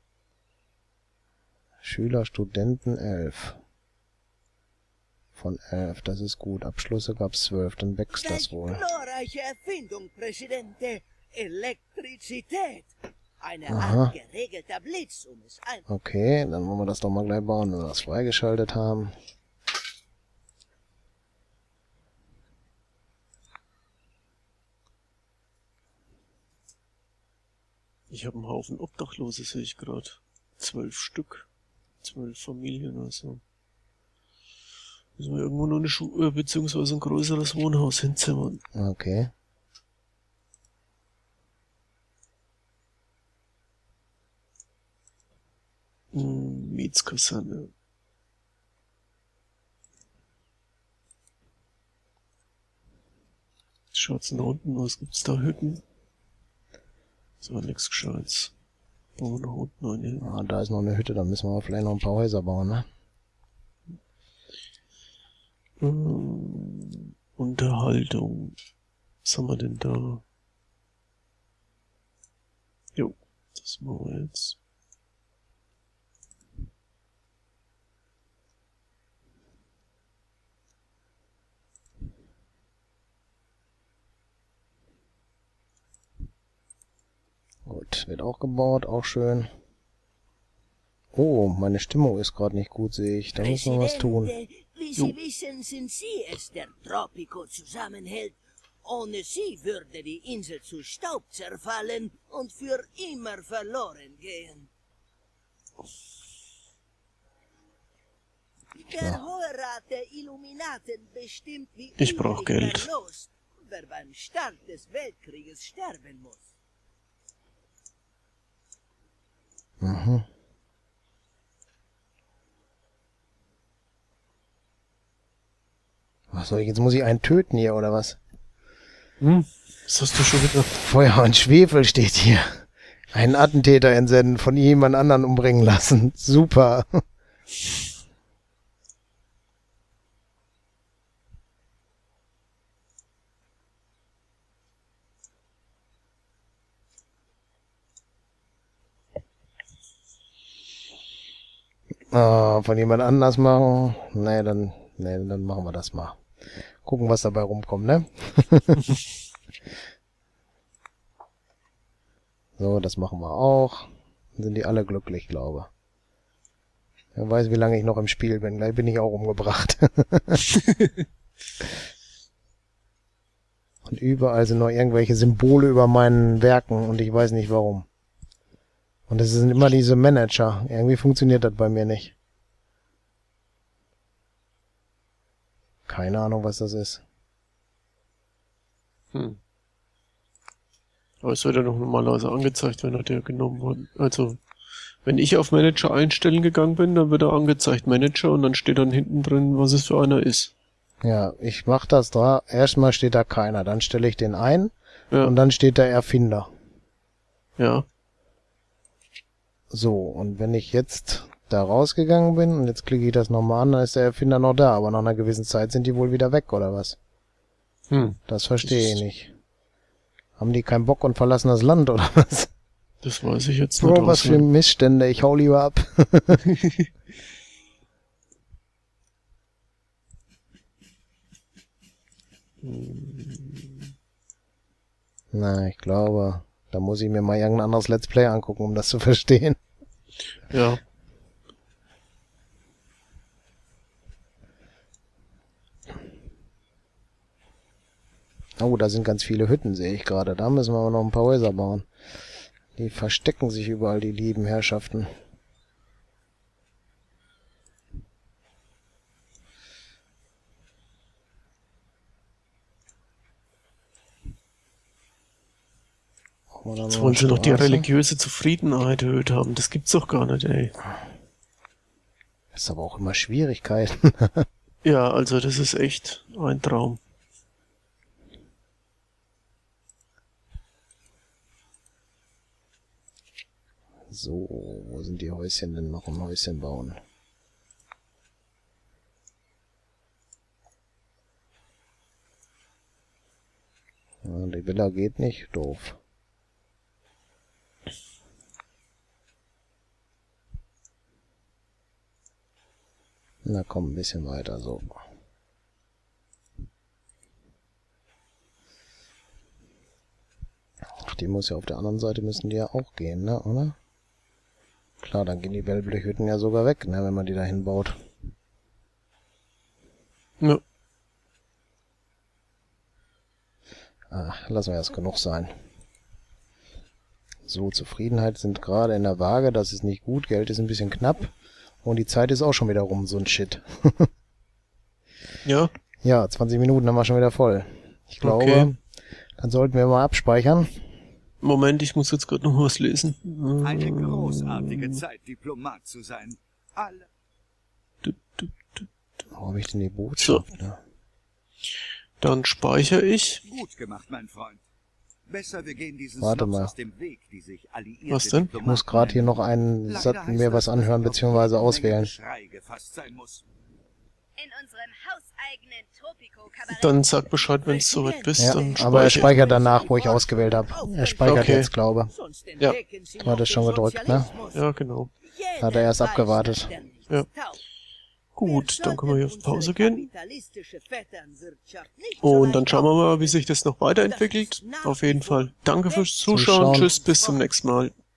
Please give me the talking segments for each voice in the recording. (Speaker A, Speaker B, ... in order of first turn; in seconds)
Speaker A: 1.8-3.6, 5.3-8.8, 13.7-14.1, 15.9-19.1, 38.7-39.3, 60.2-62.9, 87.7-89.5, 91.1-94.3, 119.8-120.3, 126.3-128.2, 130.7-137.0, 152.1-156.2, 156.8-159.0, 162.6-165.7, 167.2-170.5, 173.8-177.9, 179.1-182.1, 185.9-187.0, 201.0-206.5, 209.7-217.0, 218.3-219.3, 220.4-222.5, 223.8-226.4, 235.3-239.6, 248.6-251.9, 252.8-255.1, 266.5-267.9, 272.5-274.5, 284.1-287.0, 294.2-296.0, 303.4-305.0, 311.0-313.8, 315.0-318.0, 324.1-325.5, 327.5-331.3, 331.8-334.1, 336.0-338.8, 339.4-340.7, 349.3-350.8, 356.2-356.7, 358.6-362.1, 368.4-372.1, 373.2-374.3, 375.6-376.7, 386.3-386.9
Speaker B: 8.1-15.8, 93.4-104.7, 108.8-116.5, 367.6-374.6, 375.2-377.6, 378.4-386.2, 386.7-387.4
Speaker C: 28.1-31.5, 32.0-33.4, 35.2-38.6, 46.1-47.7, 53.9-55.8, 57.4-58.5, 59.2-60.3, 65.8-68.6, 69.2-70.2, 73.0-74.6, 112.0-112.9, 129.2-130.7, 189.1-189.4, 191.2-194.4, 195.0-200.5, 207.6-207.9, 217.9-219.0, 223.0-224.5, 232.6-233.9, 240.5-240.8, 266.9-270.8, 274.8-277.0, 335.4-335.7, 338.2-338.7, 341.4-345.0, 348.0-348.9, 350.2-350.5, 352.2-353.4, 358.1-358.5, 366.7-369.3, 371.2-371.7, 374.5-375.1, 378.3-380.1, 382.2-387.9
Speaker D: 343.6-347.1, 353.4-354.6, 355.3-363.4
Speaker E: 364.4-367.1